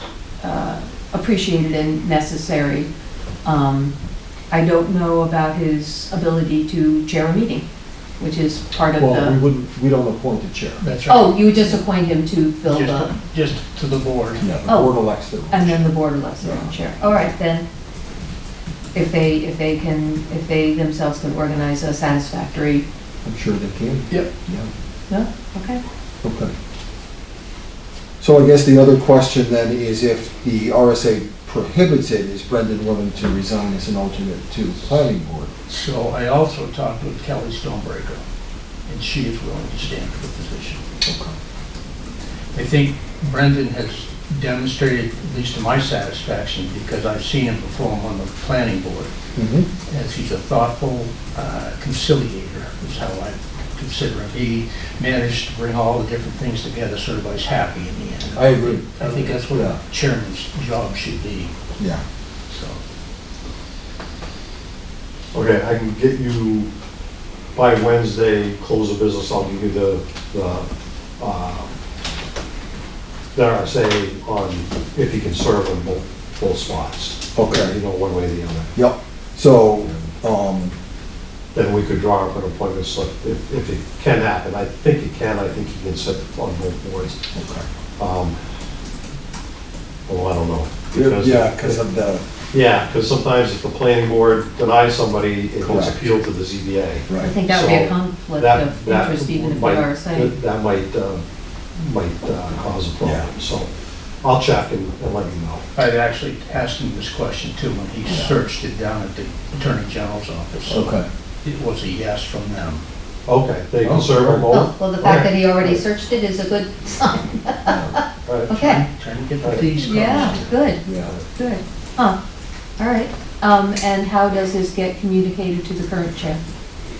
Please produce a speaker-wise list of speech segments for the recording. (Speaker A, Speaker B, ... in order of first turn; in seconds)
Speaker A: 0.4-2.9, 3.4-3.9, 4.5-7.6, 8.2-9.4, 11.1-13.1, 14.7-14.9, 15.5-17.6, 18.9-22.9, 25.1-25.8, 97.2-100.3, 114.5-118.8, 119.8-120.8, 121.3-122.2, 122.8-126.4
Speaker B: 9.0-10.8, 14.4-16.7, 23.2-24.7, 26.2-26.5, 28.2-35.5, 41.0-41.3, 49.3-49.7, 58.3-59.8, 77.3-77.8, 78.8-80.8, 87.3-87.7, 90.9-92.2, 95.6-96.1, 97.1-97.3, 108.1-108.4, 110.7-111.1, 113.8-114.5, 117.7-118.0, 120.8-121.1
Speaker C: 10.8-11.8, 12.7-14.5, 35.7-38.2, 38.9-40.8, 42.5-49.1, 49.9-61.5, 62.5-62.8, 105.8-112.8, 118.5-120.5
Speaker D: 65.3-66.7, 67.5-70.7, 71.2-71.7, 73.3-78.7, 81.5-87.2, 88.0-88.3, 90.1-91.8, 92.5-101.2, 101.8-103.7, 104.2-105.6, 113.3-115.3, 119.4-119.7, 121.0-121.3